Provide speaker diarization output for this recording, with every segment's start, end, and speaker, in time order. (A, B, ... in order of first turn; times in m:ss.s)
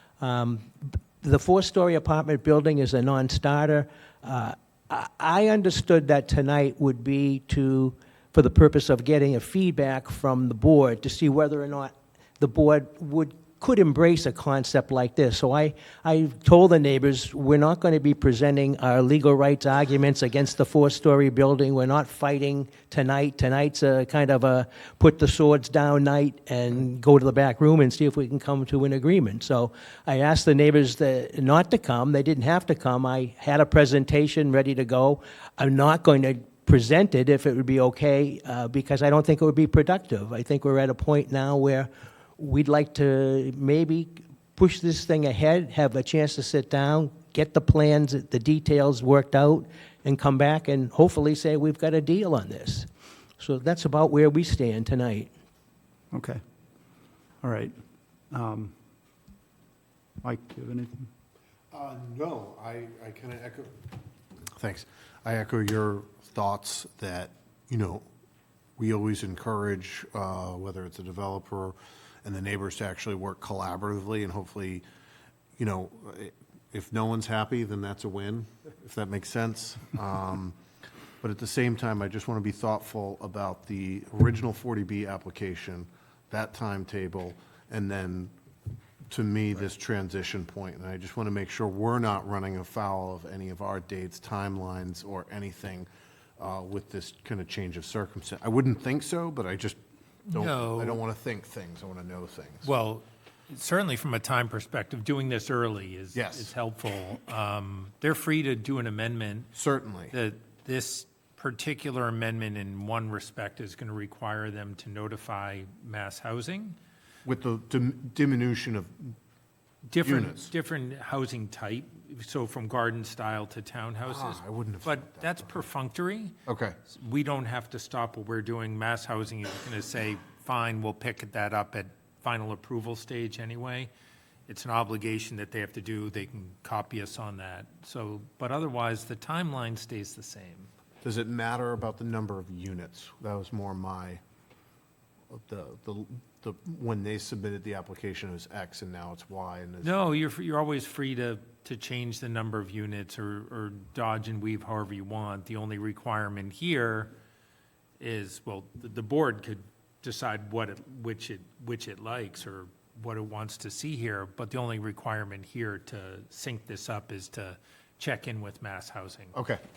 0:00.2-0:55.3 A
0:56.1-0:56.4 B
0:57.4-0:57.7 B
0:58.3-0:58.7 B
1:00.2-1:01.1 B
1:01.7-1:03.8 C
1:04.6-1:08.0 C
1:08.8-1:14.8 C
1:15.6-1:20.6 C
1:21.2-1:28.3 C
1:29.1-1:39.8 C
1:40.3-1:41.0 D
1:40.3-1:42.7 C
1:42.6-1:49.5 D
1:46.1-1:46.5 C
1:49.5-1:50.1 C
1:50.1-1:56.8 D
1:57.2-1:59.1 C
1:59.9-2:06.3 D
2:00.0-2:00.5 C
2:04.0-2:05.7 C
2:06.5-2:06.8 C
2:06.9-2:13.9 D
2:14.5-2:20.7 D
2:21.0-2:24.2 C
2:25.3-2:30.0 C
2:29.8-2:37.1 D
2:38.0-2:49.3 D
2:49.3-2:49.6 C